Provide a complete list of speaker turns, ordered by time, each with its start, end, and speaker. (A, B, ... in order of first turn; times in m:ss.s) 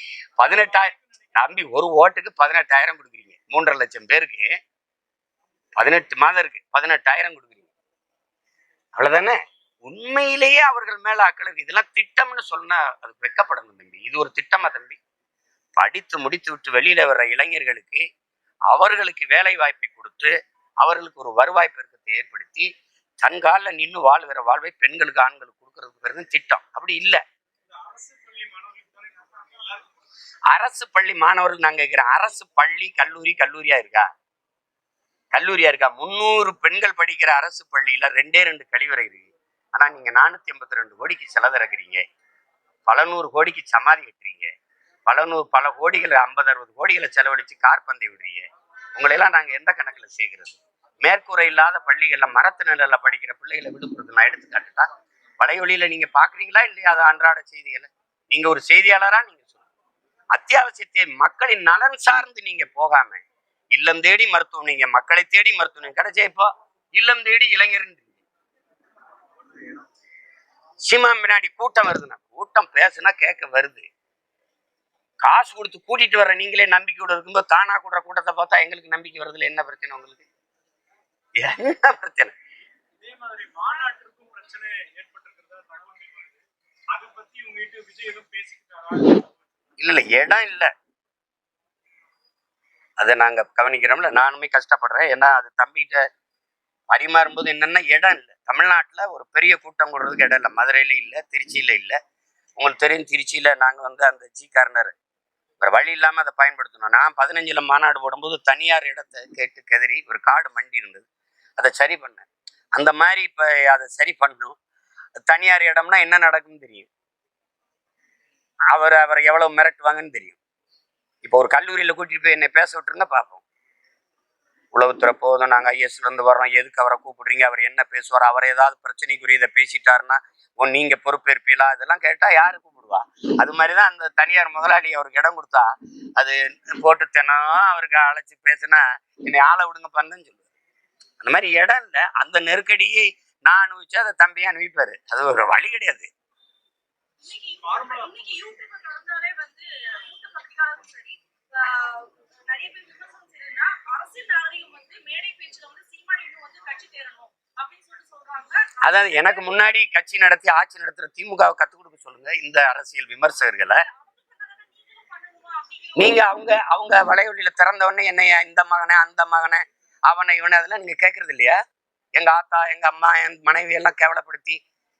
0:00.4-0:04.5 A
0:00.7-0:01.3 B
0:05.8-0:07.7 A
0:09.0-0:15.0 A
0:15.8-0:18.0 A
0:18.7-0:22.7 A
0:23.2-0:27.2 A
0:27.7-0:29.9 B
0:30.5-0:34.0 A
0:35.3-0:42.0 A
0:42.9-0:44.5 A
0:45.1-0:48.4 A
0:49.0-0:54.9 A
0:55.4-0:59.7 A
1:00.3-1:08.2 A
1:10.9-1:13.9 A
1:15.2-1:20.2 A
1:21.4-1:22.3 A
1:23.0-1:29.4 B
1:29.8-1:30.7 A
1:33.0-1:36.0 A
1:36.9-1:42.0 A
1:42.6-1:44.9 A
1:45.6-1:51.0 A
1:51.6-1:54.6 A
1:55.3-1:56.9 A
1:58.7-2:00.4 A
2:01.2-2:03.4 A
2:04.7-2:20.4 A
2:21.2-2:26.1 A
2:27.2-2:39.7 C
2:27.6-2:28.4 B
2:38.8-2:43.8 A
2:43.9-2:46.2 C
2:46.0-2:51.6 A
2:52.2-2:54.6 A